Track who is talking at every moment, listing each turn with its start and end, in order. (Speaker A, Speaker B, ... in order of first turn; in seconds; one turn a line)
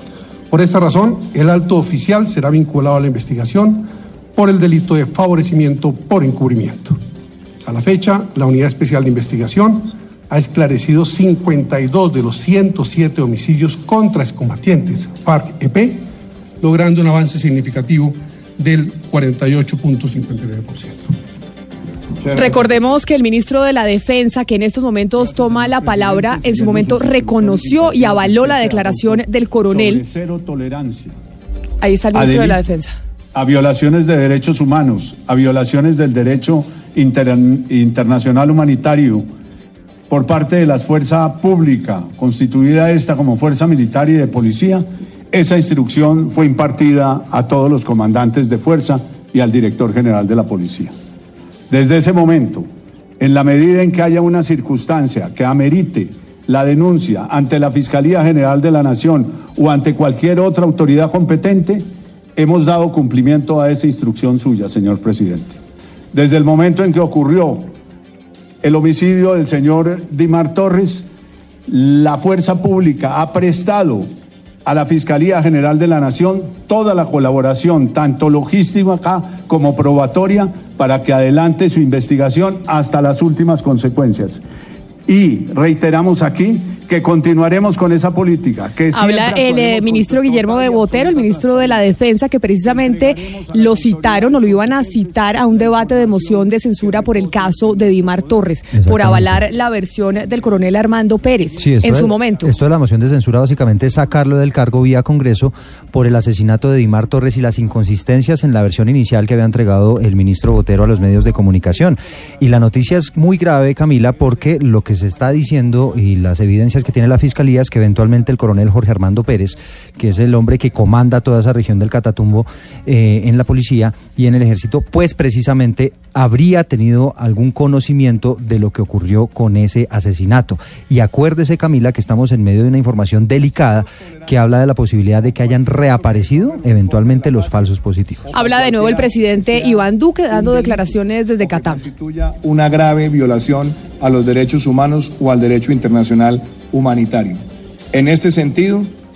Speaker A: 0.5-7.0
Speaker A: 7.6-16.1
Speaker A: 16.6-21.1
Speaker B: 22.2-22.8
Speaker C: 22.3-30.0
Speaker D: 25.2-31.1
Speaker C: 31.8-32.9
Speaker D: 32.1-32.6
Speaker D: 33.3-39.2
Speaker D: 40.1-50.9
Speaker D: 51.7-52.7
Speaker D: 53.2-61.8
Speaker D: 62.4-65.6
Speaker D: 66.1-67.7
Speaker D: 68.6-71.1
Speaker D: 71.7-74.1
Speaker D: 74.6-84.4
Speaker D: 85.1-92.0
Speaker C: 88.9-102.5
Speaker D: 92.6-98.5
Speaker E: 98.7-99.4
Speaker D: 100.2-100.8
Speaker D: 101.5-101.8
Speaker E: 101.6-138.2
Speaker B: 133.6-147.4
Speaker C: 138.3-141.8
Speaker B: 147.9-148.9